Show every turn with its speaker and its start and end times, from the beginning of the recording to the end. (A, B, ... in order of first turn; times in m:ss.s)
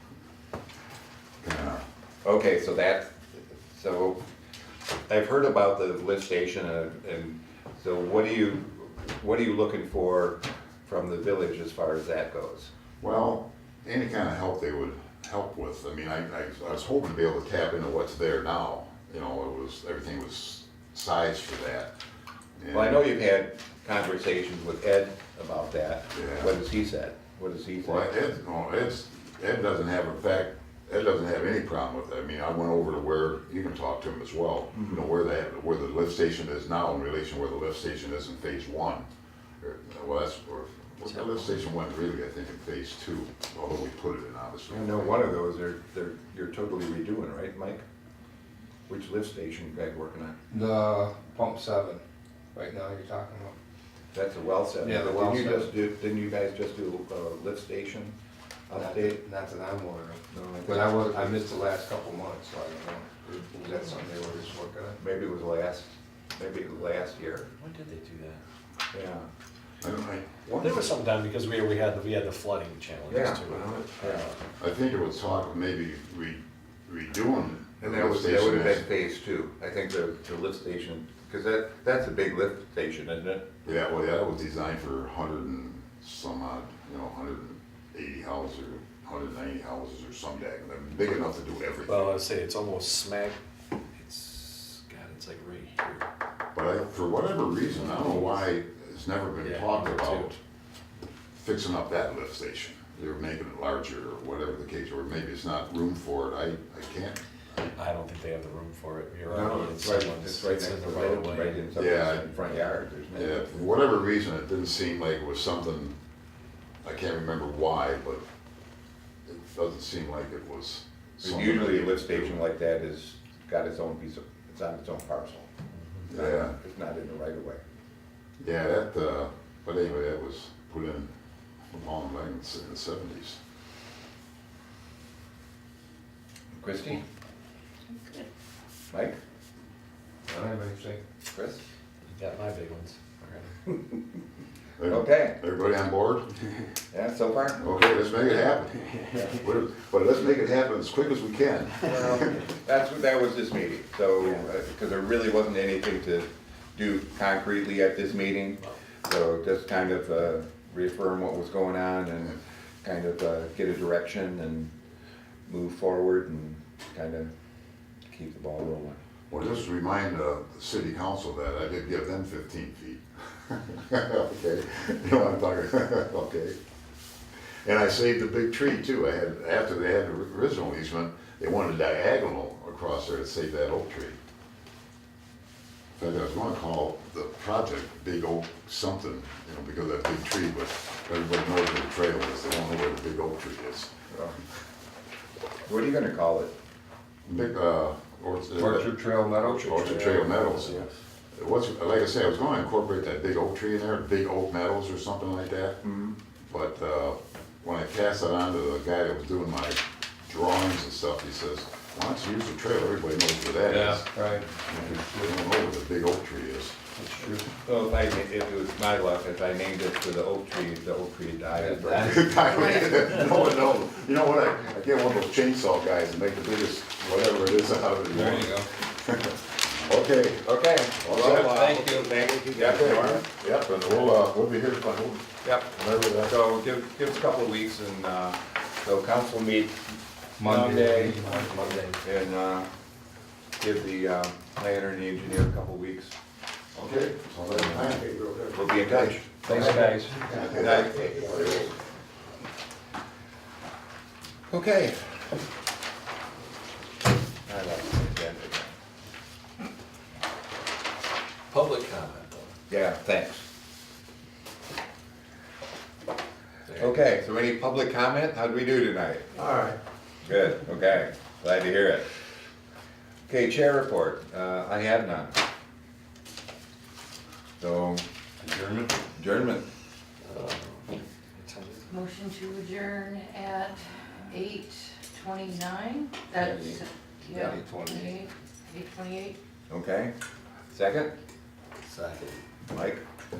0:01.4-0:01.8 A
0:02.2-0:04.2 B
0:05.1-0:12.7 B
0:13.0-0:21.9 A
0:22.6-0:23.0 A
0:22.7-0:28.1 B
0:26.1-0:26.6 A
0:27.8-0:39.1 A
0:34.7-0:35.0 B
0:39.6-0:45.3 A
0:44.7-0:47.8 B
0:48.9-0:50.4 B
0:50.5-0:52.0 C
0:52.5-0:53.6 C
0:54.1-0:58.1 B
0:54.8-0:55.7 C
0:58.7-0:59.2 B
0:58.8-1:05.0 C
1:00.3-1:01.5 B
1:05.0-1:07.5 B
1:07.5-1:08.4 D
1:08.9-1:09.3 B
1:09.8-1:10.9 A
1:10.6-1:14.4 D
1:13.1-1:14.3 B
1:14.6-1:18.8 A
1:17.8-1:23.4 B
1:23.6-1:32.2 A
1:31.9-1:33.4 D
1:34.0-1:36.1 D
1:36.5-1:40.3 A
1:37.9-1:38.3 D
1:39.4-1:40.4 D
1:41.3-1:47.7 A
1:47.7-1:51.6 D
1:49.3-1:53.5 B
1:51.8-1:52.2 A
1:53.1-1:56.0 A
1:56.8-1:58.2 A
1:59.3-2:02.4 A
2:01.2-2:05.5 B
2:05.8-2:06.0 D
2:06.1-2:06.5 A
2:06.1-2:07.6 B
2:08.4-2:11.1 A
2:11.7-2:13.4 A
2:16.6-2:17.0 B
2:17.9-2:18.3 E
2:18.9-2:19.2 B
2:20.3-2:21.0 C
2:21.3-2:21.6 B
2:22.0-2:23.5 D
2:24.8-2:26.3 A
2:24.9-2:25.4 B
2:26.9-2:27.7 B
2:27.6-2:32.3 A
2:31.8-2:44.7 B
2:45.5-2:47.3 B
2:48.1-2:49.0 B
2:49.3-2:56.6 A
2:57.6-3:04.2 A
3:06.0-3:13.9 A
3:14.1-3:14.4 B
3:15.7-3:16.5 B
3:17.2-3:18.9 A
3:18.6-3:20.4 C
3:19.4-3:25.8 A
3:19.8-3:20.8 D
3:25.8-3:26.2 B
3:26.5-3:36.8 A
3:33.7-3:34.0 D
3:34.1-3:34.5 C
3:35.0-3:35.3 C
3:37.0-3:37.5 C
3:37.6-3:42.4 B
3:41.6-3:42.2 C
3:42.0-3:50.5 A
3:42.4-3:42.8 E
3:48.1-3:48.7 C
3:50.4-3:53.2 B
3:51.0-3:51.6 A
3:51.2-3:52.3 D
3:52.5-3:56.3 A
3:55.4-3:59.8 B
4:00.4-4:01.8 C
4:00.4-4:01.2 B
4:01.2-4:02.0 D
4:02.0-4:02.7 B
4:03.6-4:06.2 B
4:06.7-4:11.7 A
4:08.5-4:09.9 B
4:09.5-4:10.6 C
4:10.5-4:11.7 B
4:14.5-4:15.2 B
4:17.4-4:18.7 B
4:21.5-4:22.5 D
4:22.7-4:23.4 B
4:26.6-4:26.9 D
4:26.8-4:29.3 B
4:30.2-4:32.1 B
4:33.3-4:35.4 B
4:37.6-4:38.0 B
4:39.1-4:39.6 B
4:40.2-4:41.9 D
4:41.9-4:49.4 E
4:46.3-4:47.6 B
4:47.4-4:48.2 C
4:49.7-4:50.1 B
4:50.7-4:51.1 B
4:51.8-4:52.4 D
4:52.7-4:53.0 B